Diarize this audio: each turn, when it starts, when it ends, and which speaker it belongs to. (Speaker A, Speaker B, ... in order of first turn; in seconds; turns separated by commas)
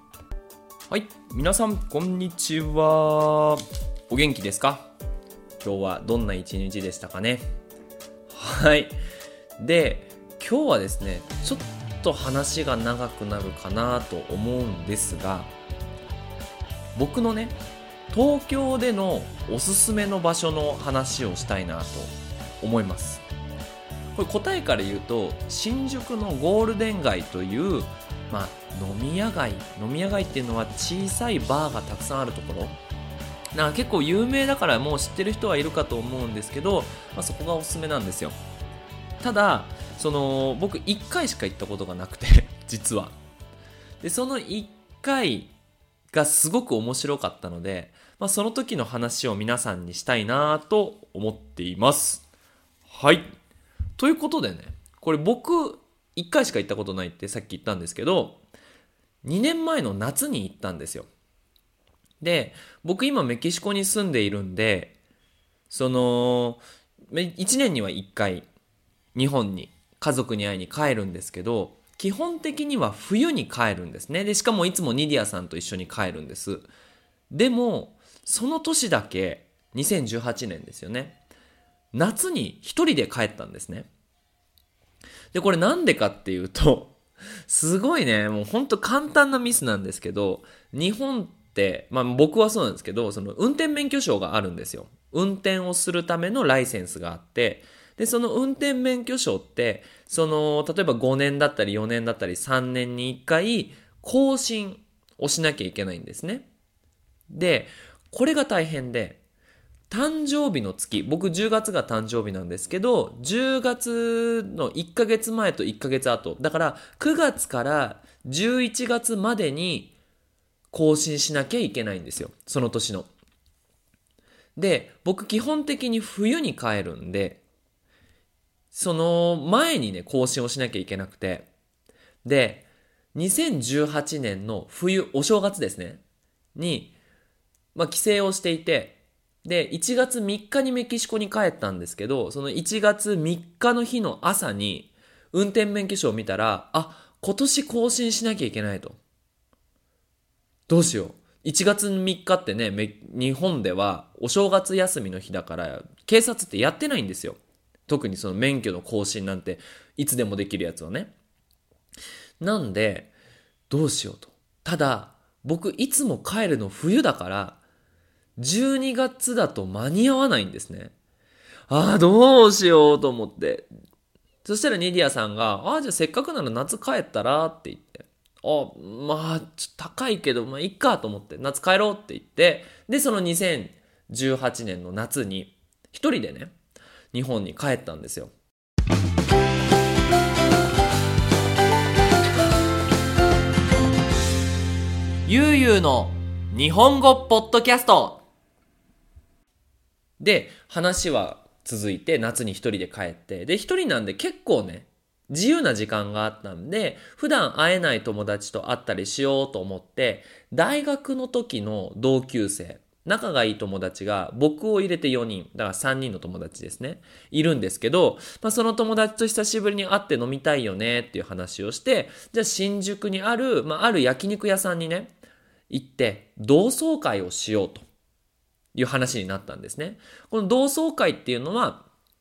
Speaker A: 0.9-4.8, Speaker A: 5.6-7.4, Speaker A: 8.3-8.9, Speaker A: 9.6-15.5, Speaker A: 16.9-17.6, Speaker A: 18.1-23.2, Speaker A: 24.1-32.8, Speaker A: 33.5-38.4, Speaker A: 39.2-43.1, Speaker A: 44.0-45.5, Speaker A: 46.1-52.2, Speaker A: 52.9-53.3, Speaker A: 54.0-58.4, Speaker A: 59.2-61.1, Speaker A: 62.2-65.0, Speaker A: 65.7-68.5, Speaker A: 69.1-76.7, Speaker A: 77.3-81.2, Speaker A: 81.9-83.9, Speaker A: 85.3-106.5, Speaker A: 107.3-109.2, Speaker A: 109.9-119.9, Speaker A: 120.7-123.1, Speaker A: 124.5-127.4, Speaker A: 128.7-131.5, Speaker A: 132.2-136.0, Speaker A: 136.5-136.9, Speaker A: 137.7-149.0, Speaker A: 150.7-161.1, Speaker A: 162.4-163.1, Speaker A: 163.7-167.6, Speaker A: 168.4-170.9, Speaker A: 171.7-173.7, Speaker A: 174.4-186.5, Speaker A: 187.1-188.3, Speaker A: 195.2-198.2, Speaker A: 200.2-225.1, Speaker A: 225.7-227.9, Speaker A: 228.7-231.9